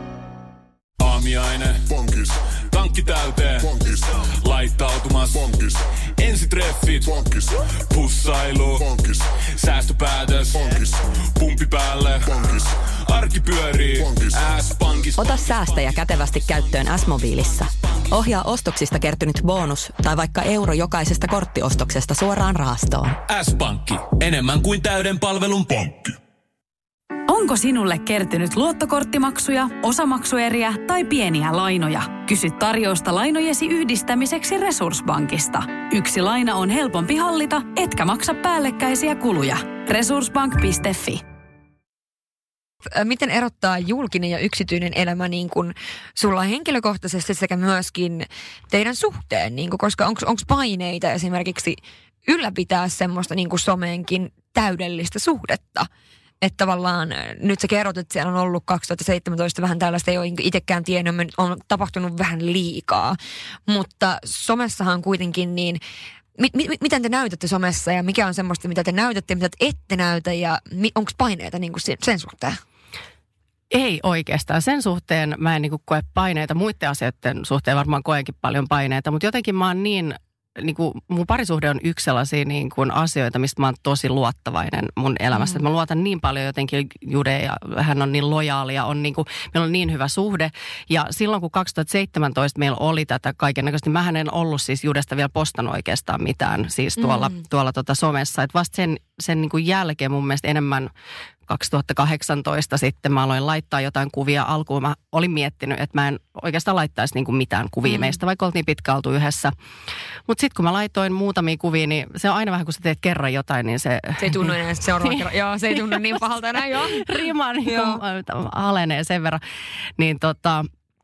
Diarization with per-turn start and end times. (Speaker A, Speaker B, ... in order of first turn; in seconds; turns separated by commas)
Speaker A: 1.0-15.4, Speaker B: 15.2-23.2, Speaker A: 23.3-26.2, Speaker C: 27.3-41.2, Speaker D: 42.9-55.9, Speaker D: 56.4-65.8, Speaker D: 66.4-72.6, Speaker E: 73.7-100.9, Speaker D: 85.4-85.6, Speaker E: 101.5-109.5, Speaker D: 107.9-108.2, Speaker E: 110.3-119.4, Speaker D: 114.2-118.0, Speaker E: 120.0-120.7